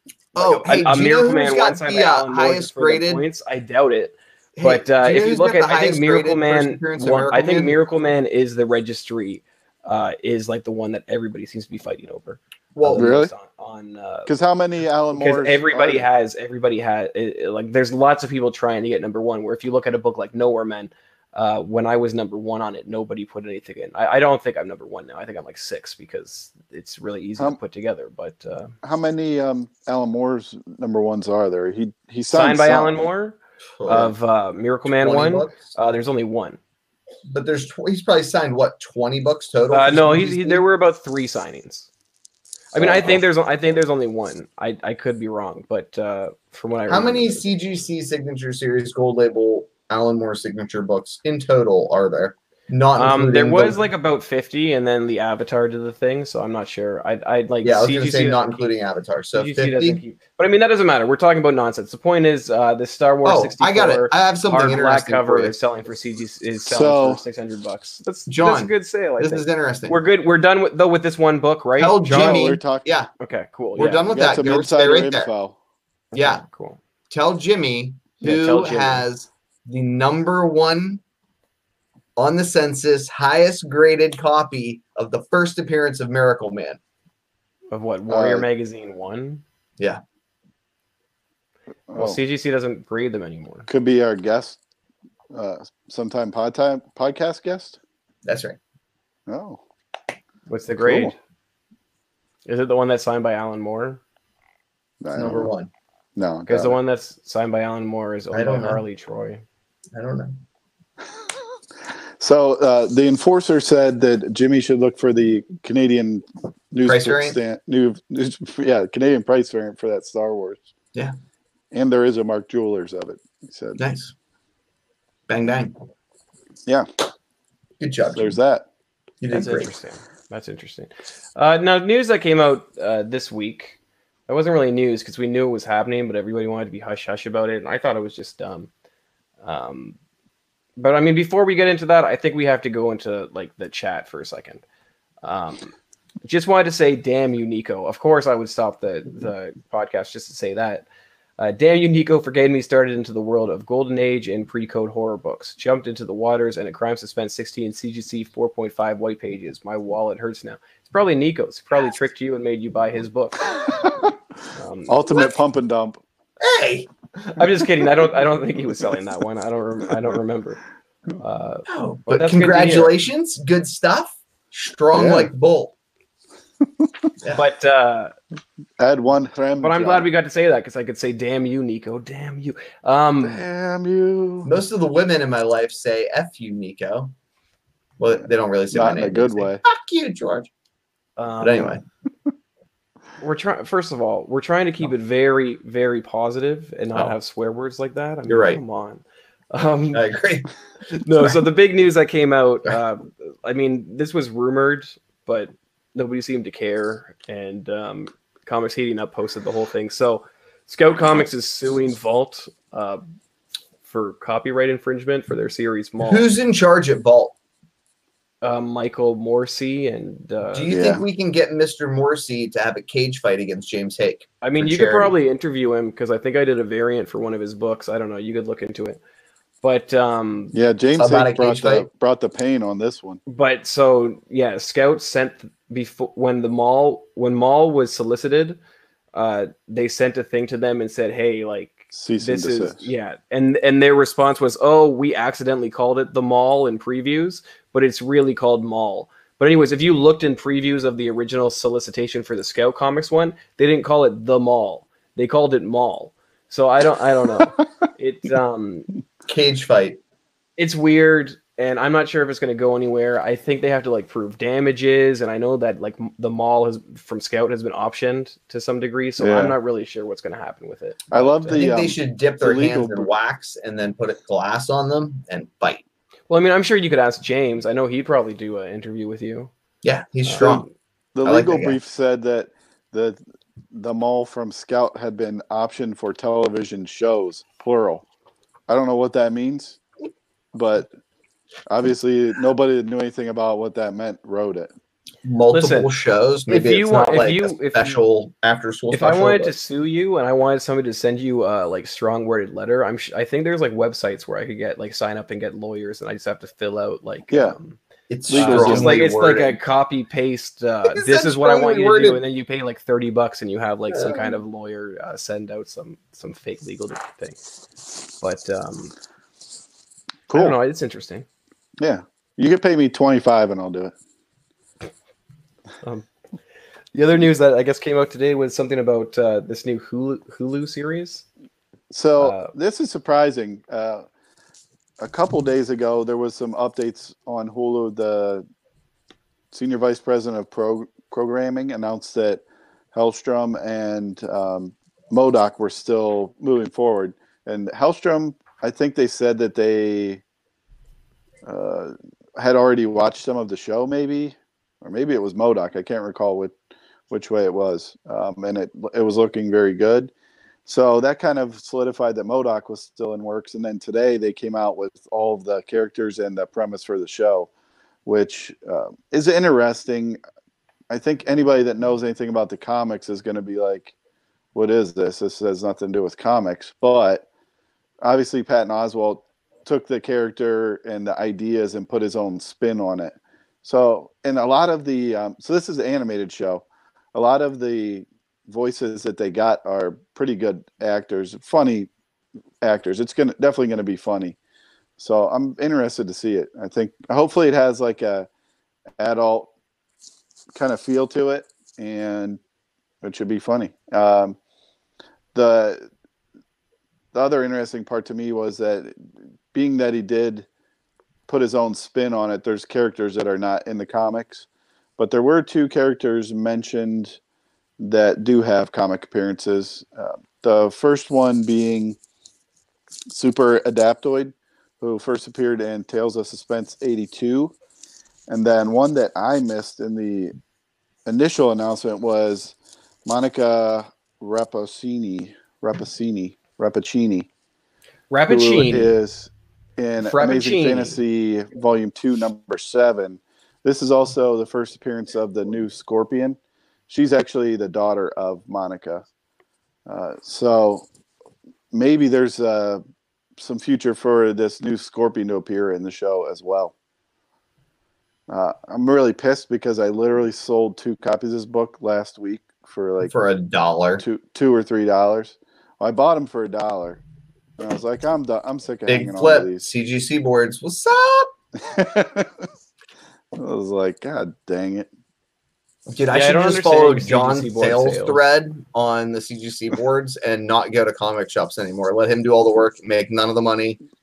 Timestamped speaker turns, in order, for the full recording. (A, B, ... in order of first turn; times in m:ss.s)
0:00.3-0:03.2 A
0:00.4-0:14.3 B
0:04.6-0:07.8 A
0:12.7-0:13.2 A
0:12.9-0:13.3 C
0:14.2-0:16.1 C
0:15.1-0:28.7 B
0:28.8-0:33.0 C
0:32.3-0:36.6 B
0:33.8-0:34.1 A
0:34.8-0:35.7 A
0:37.3-0:40.6 A
0:39.7-0:41.9 B
0:42.7-0:47.5 B
0:42.8-0:43.2 C
0:46.9-0:53.8 A
0:52.9-0:58.6 B
0:57.6-1:00.0 A
0:59.3-1:12.4 B
1:03.2-1:05.5 A
1:06.7-1:07.2 C
1:08.3-1:10.0 A
1:11.8-1:13.1 A
1:12.0-1:12.9 C
1:13.2-1:14.2 B
1:13.8-1:15.3 A
1:14.1-1:15.6 C
1:16.1-1:16.4 A
1:16.2-1:16.8 B
1:17.1-1:21.0 A
1:18.2-1:19.0 B
1:22.2-1:26.8 A
1:27.7-1:29.4 B
1:28.1-1:28.4 C
1:31.9-1:32.2 C
1:31.9-1:33.7 B
1:33.7-1:34.6 C
1:35.3-1:37.8 C
1:38.2-1:38.6 A
1:39.3-1:39.6 C
1:40.5-1:41.1 B
1:40.8-1:41.1 C
1:42.4-1:44.0 B
1:45.0-1:45.5 C
1:45.1-1:45.7 A
1:46.2-1:46.8 C
1:46.5-1:49.4 B
1:48.3-1:48.8 A
1:49.9-1:50.4 A
1:52.2-2:00.7 C
1:56.8-1:57.4 A
2:01.7-2:03.8 C
2:03.8-2:04.1 A
2:05.3-2:05.8 A
2:07.8-2:08.4 A
2:08.1-2:08.6 C
2:09.2-2:09.7 A
2:09.3-2:13.8 B
2:14.3-2:18.7 B
2:19.4-2:20.0 B
2:20.8-2:24.6 B
2:25.2-2:25.7 B
2:26.2-2:30.8 B
2:31.4-2:43.8 B
2:43.6-2:44.1 C
2:44.5-2:45.1 B
2:44.9-2:46.0 C
2:46.4-2:46.9 A
2:47.2-2:50.6 B
2:51.2-2:52.9 B
2:51.7-2:55.7 A
2:54.9-2:55.3 C
2:56.8-2:57.1 C
2:57.2-2:57.5 A
2:57.3-2:58.1 B
2:58.8-3:00.1 C
2:59.6-3:03.4 B
3:03.2-3:04.5 C
3:04.4-3:07.1 A
3:08.0-3:10.5 A
3:08.7-3:09.6 C
3:11.2-3:11.8 B
3:11.4-3:11.8 A
3:13.2-3:20.0 B
3:18.3-3:18.6 A
3:19.9-3:20.5 A
3:21.0-3:33.0 B
3:33.8-3:36.2 B
3:36.0-3:37.3 A
3:38.4-3:40.7 B
3:40.5-3:45.1 A
3:40.7-3:41.0 C
3:44.4-3:49.0 B
3:49.6-3:50.5 B
3:50.5-3:53.2 C
3:51.0-3:51.9 A
3:53.3-3:58.6 B
3:59.1-4:18.9 B
4:01.9-4:02.9 C
4:19.3-4:20.0 A
4:20.6-4:31.7 B
4:29.2-4:29.5 C
4:31.1-4:33.1 C
4:31.5-4:35.8 A
4:36.3-4:39.5 B
4:39.8-4:40.6 A
4:40.2-4:40.7 B
4:41.1-4:48.0 C
4:41.2-4:41.8 A
4:48.7-4:49.8 C
4:50.5-4:50.9 C
4:51.7-4:54.7 C
4:55.2-4:59.5 A
4:55.5-4:55.9 B
4:56.5-4:58.0 B
4:58.9-5:07.8 B
5:07.3-5:07.6 C
5:08.1-5:09.6 A
5:08.3-5:09.0 C
5:08.3-5:17.4 B
5:10.8-5:12.2 A
5:13.9-5:14.4 A
5:18.2-5:18.9 B
5:20.3-5:20.5 C
5:20.3-5:21.2 B
5:21.8-5:23.9 C
5:25.8-5:26.1 B
5:26.9-5:31.2 B
5:31.9-5:34.1 C
5:32.2-5:32.5 B
5:35.0-5:38.4 C
5:39.5-5:50.2 C
5:51.4-6:00.1 C
6:00.6-6:07.5 C
6:08.0-6:10.2 C
6:10.9-6:13.9 C
6:14.5-6:17.2 C
6:18.0-6:31.9 C
6:32.6-6:34.4 C
6:35.0-6:38.3 C
6:39.0-6:39.5 C
6:40.5-6:42.4 C
6:43.0-6:44.4 C
6:45.3-6:45.9 C
6:47.1-6:50.5 C
6:51.3-6:54.4 C
6:55.0-6:57.2 C
6:57.8-7:02.0 C
7:03.1-7:07.5 C
7:08.3-7:10.3 C
7:11.0-7:17.3 C
7:18.1-7:18.9 B
7:18.3-7:26.4 C
7:20.0-7:21.0 B
7:26.9-7:29.0 C
7:29.8-7:30.9 C
7:31.7-7:32.8 C
7:33.4-7:36.7 C
7:38.3-7:43.1 C
7:43.0-7:44.0 A
7:44.0-7:47.0 C
7:47.6-7:49.6 C
7:48.9-7:51.3 A
7:51.5-7:52.5 C
7:53.3-7:54.9 C
7:55.9-8:03.8 A
7:56.1-7:58.2 B